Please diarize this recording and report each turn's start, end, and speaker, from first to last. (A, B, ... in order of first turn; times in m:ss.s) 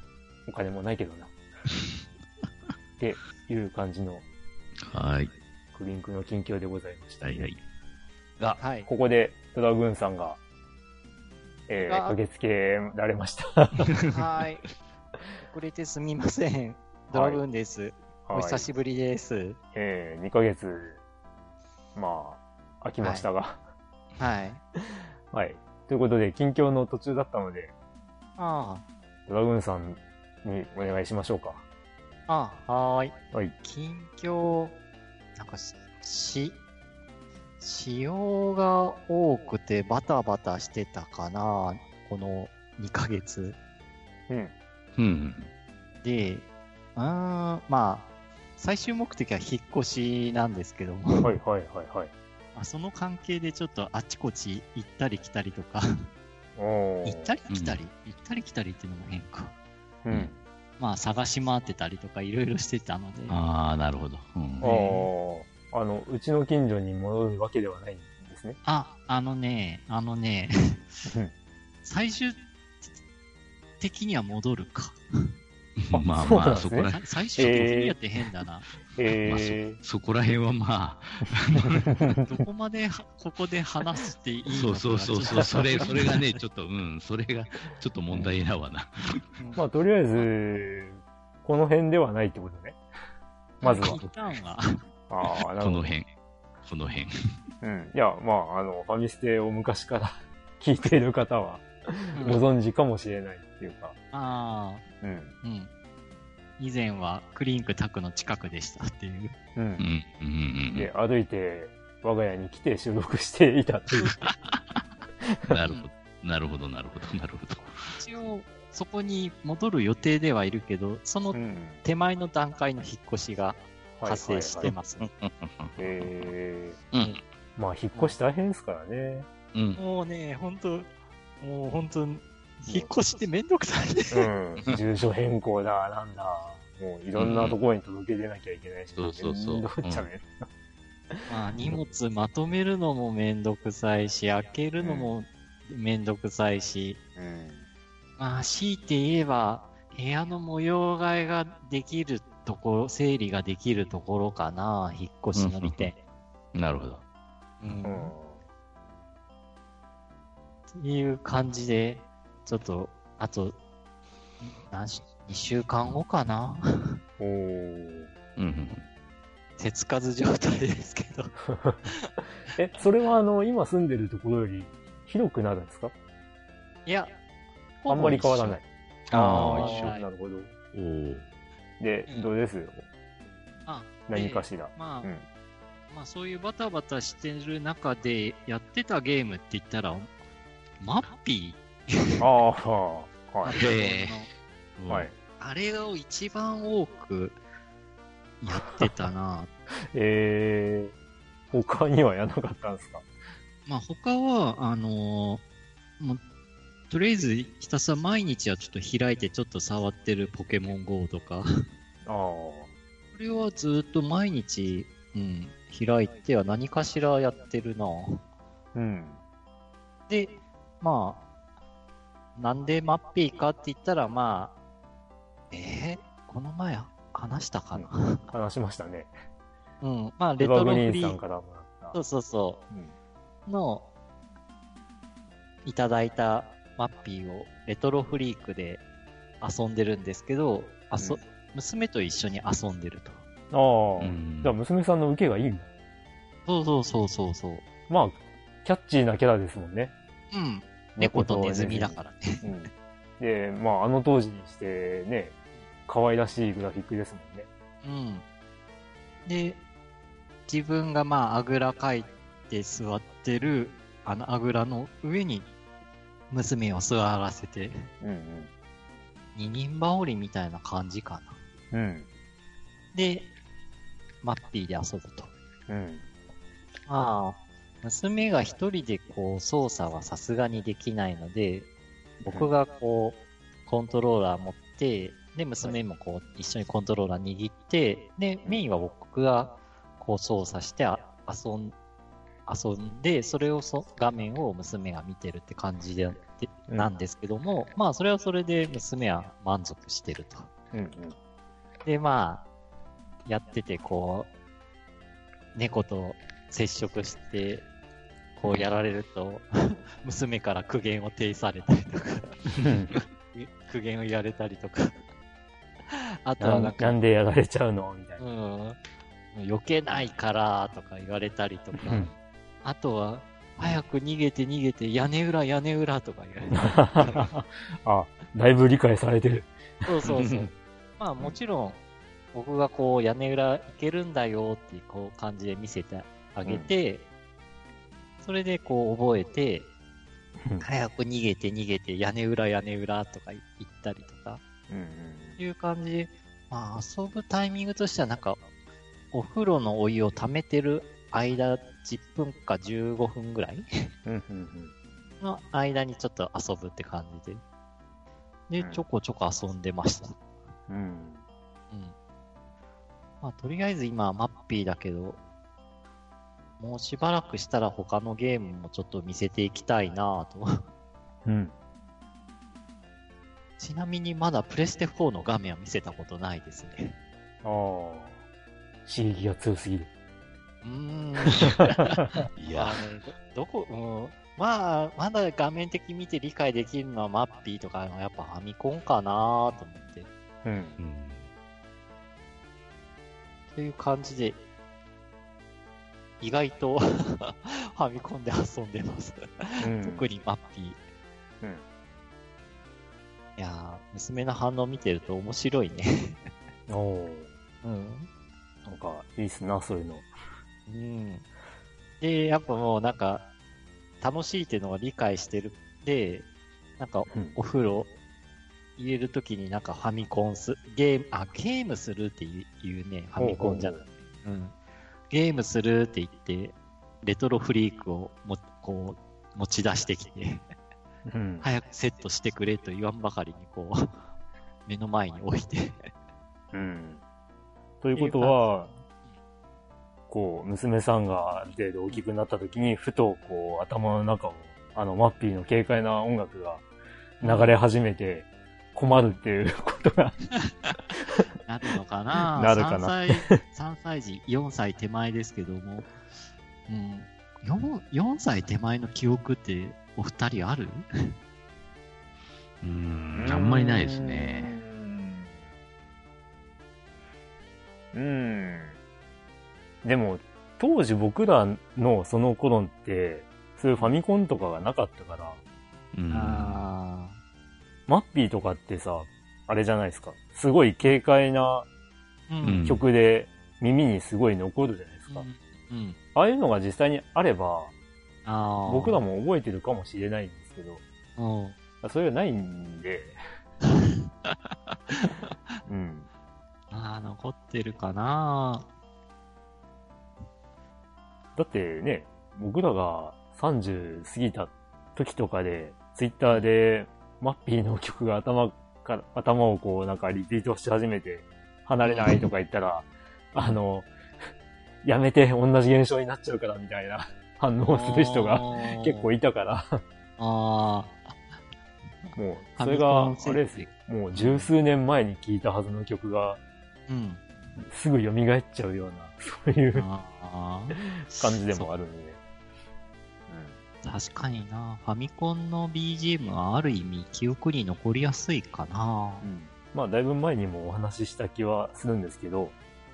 0:00.5-0:01.3 A
0:03.0-0:04.2 A
0:04.9-0:05.3 B
0:05.7-0:07.5 A
0:07.2-0:07.6 B
0:08.6-0:08.9 C
0:08.8-0:10.4 A
0:11.7-0:14.0 A
0:11.9-0:12.2 C
0:14.1-0:14.7 C
0:15.5-0:19.6 C
0:17.1-0:17.4 A
0:18.3-0:18.7 A
0:19.8-0:21.0 A
0:22.0-0:23.6 A
0:24.2-0:24.6 C
0:25.3-0:27.7 A
0:28.4-0:28.8 C
0:29.3-0:31.6 A
0:32.3-0:34.8 C
0:35.4-0:36.6 C
0:37.6-0:43.6 C
0:45.0-0:45.5 B
0:46.0-0:51.4 C
0:51.2-0:52.1 A
0:52.6-0:55.8 C
0:56.6-0:57.4 A
0:57.0-0:59.6 C
0:57.5-0:57.8 B
1:00.0-1:00.4 A
1:00.8-1:03.4 C
1:03.3-1:04.7 B
1:04.6-1:08.6 A
1:04.6-1:04.9 C
1:08.6-1:10.8 C
1:11.8-1:12.4 C
1:13.8-1:15.3 C
1:15.8-1:17.6 B
1:15.9-1:18.0 A
1:16.9-1:18.7 C
1:19.0-1:19.8 A
1:19.2-1:22.0 B
1:21.9-1:22.2 A
1:22.2-1:26.4 C
1:24.5-1:29.2 B
1:29.6-1:32.8 A
1:33.6-1:34.0 A
1:33.6-1:34.8 C
1:33.8-1:34.1 B
1:35.1-1:35.9 A
1:35.6-1:36.1 B
1:36.6-1:37.1 B
1:37.6-1:44.0 A
1:42.2-1:42.4 C
1:44.1-1:44.9 C
1:45.0-1:45.4 A
1:45.4-1:45.7 C
1:46.6-1:49.4 C
1:49.6-1:49.9 A
1:49.8-1:50.9 B
1:50.8-1:54.2 A
1:54.2-1:54.8 B
1:55.5-1:57.9 B
1:57.9-2:05.1 C
2:01.3-2:01.8 A
2:04.0-2:04.7 A
2:04.6-2:06.1 B
2:05.8-2:06.8 A
2:06.9-2:07.2 B
2:07.6-2:09.3 A
2:09.5-2:09.8 B
2:09.8-2:10.9 C
2:11.4-2:14.3 C
2:14.1-2:20.5 A
2:17.2-2:17.6 B
2:19.0-2:20.1 B
2:21.1-2:21.8 A
2:21.3-2:27.0 C
2:24.8-2:25.1 A
2:27.2-2:27.7 A
2:28.2-2:36.0 C
2:35.4-2:35.9 B
2:36.6-2:37.0 B
2:37.6-2:38.0 B
2:37.8-2:38.4 A
2:40.8-2:43.6 C
2:44.4-2:47.0 C
2:47.2-2:48.1 A
2:48.4-2:48.8 B
2:49.6-2:51.4 C
2:51.5-2:51.8 A
2:52.6-2:55.9 A
2:56.9-2:57.1 C
2:57.8-2:58.6 C
2:57.9-3:00.5 A
2:59.1-3:00.0 B
2:59.3-3:00.0 C
3:00.7-3:01.3 B
3:01.8-3:02.8 A
3:03.7-3:05.1 C
3:04.1-3:05.3 A
3:05.9-3:10.1 C
3:10.8-3:12.2 C
3:12.2-3:13.6 A
3:13.4-3:14.3 C
3:13.6-3:14.3 B
3:14.8-3:15.1 B
3:14.9-3:15.2 A
3:15.4-3:17.4 C
3:18.4-3:19.5 C
3:19.9-3:20.9 A
3:21.5-3:23.1 A
3:23.7-3:25.4 C
3:26.9-3:31.5 C
3:32.1-3:32.7 A
3:33.1-3:38.2 C
3:38.8-3:39.2 A
3:40.1-3:41.2 C
3:42.4-3:44.6 C
3:45.5-3:48.3 C
3:47.8-3:49.1 A
3:49.8-3:51.2 C
3:50.4-3:52.0 A
3:51.9-3:52.6 C
3:53.5-3:53.9 C
3:55.6-3:58.8 C
3:59.4-4:03.2 C
4:03.5-4:05.7 A
4:04.0-4:04.5 B
4:06.5-4:07.6 C
4:07.9-4:09.9 A
4:10.3-4:12.5 C
4:11.0-4:15.4 A
4:15.9-4:17.5 A
4:17.8-4:18.2 C
4:19.3-4:19.6 C
4:20.5-4:25.5 C
4:26.3-4:27.8 C
4:28.0-4:28.5 A
4:29.4-4:31.4 C
4:31.7-4:32.1 A
4:32.9-4:33.3 C
4:34.2-4:35.3 C
4:35.7-4:36.0 A
4:36.9-4:41.7 C
4:42.2-4:51.8 C
4:52.5-5:00.5 C
5:00.7-5:01.2 A
5:01.8-5:02.5 C
5:03.3-5:04.3 C
5:05.6-5:07.6 C
5:08.4-5:09.5 C
5:10.0-5:12.4 C
5:12.6-5:13.0 A
5:13.3-5:15.0 C
5:15.9-5:17.0 C
5:16.4-5:18.2 A
5:18.2-5:18.8 C
5:19.3-5:22.1 C
5:21.8-5:22.1 A
5:22.6-5:27.2 C
5:26.5-5:29.5 A
5:29.9-5:31.8 C
5:30.1-5:30.5 B
5:32.3-5:37.1 C
5:36.4-5:36.7 A
5:38.2-5:39.7 C
5:40.6-5:44.4 C
5:44.7-5:45.4 A
5:45.4-5:48.4 C
5:49.1-5:53.9 C
5:54.1-5:54.7 A
5:55.2-5:57.4 C
5:58.5-6:00.2 C
6:00.7-6:01.2 A
6:03.2-6:05.2 C
6:06.6-6:10.6 C
6:11.2-6:11.5 A
6:13.6-6:17.0 C
6:17.4-6:18.2 A
6:18.9-6:19.9 A
6:20.6-6:21.5 C
6:22.4-6:22.8 B
6:22.5-6:30.1 C
6:30.4-6:30.8 A
6:30.8-6:31.3 B
6:33.5-6:34.4 C
6:36.2-6:40.8 C
6:39.6-6:40.0 A
6:43.4-6:46.3 C
6:46.7-6:47.3 A
6:47.6-6:48.1 C
6:48.6-6:50.1 A
6:50.7-6:51.3 C
6:52.0-6:53.3 C
6:54.0-6:56.3 C
6:56.8-6:57.9 C
6:57.1-6:57.4 A
6:58.8-7:04.6 C
7:03.2-7:03.8 A
7:05.1-7:10.4 C
7:11.1-7:11.5 A
7:11.4-7:13.9 C
7:14.7-7:15.9 C
7:16.5-7:17.0 A
7:17.8-7:18.7 A
7:18.0-7:18.4 C
7:20.1-7:26.6 A
7:27.2-7:27.6 C
7:27.2-7:30.2 A
7:31.4-7:36.0 C
7:32.4-7:33.4 A
7:36.7-7:40.9 C
7:42.6-7:44.6 B
7:43.2-7:45.3 A
7:47.9-7:48.8 A
7:49.8-7:55.4 A
7:55.9-7:56.6 B
7:56.1-7:57.2 C
7:57.9-8:01.7 A
8:02.3-8:02.7 C
8:02.4-8:02.8 B
8:02.6-8:05.3 A
8:05.1-8:06.0 C
8:06.2-8:07.7 A
8:08.2-8:09.0 C
8:08.7-8:10.8 A
8:11.2-8:11.6 C
8:11.8-8:13.2 A
8:13.7-8:15.5 C
8:15.7-8:16.1 A
8:16.7-8:18.7 C
8:21.4-8:33.9 A
8:31.8-8:32.3 C
8:34.8-8:39.8 A
8:37.7-8:39.1 C
8:40.2-8:41.2 C
8:42.0-8:44.5 C
8:42.2-8:46.4 A
8:46.9-8:47.2 C
8:47.7-8:49.8 A
8:49.7-8:51.7 C
8:51.1-8:52.2 A
8:53.3-8:53.6 A
8:53.8-8:59.3 C
8:59.2-9:02.5 A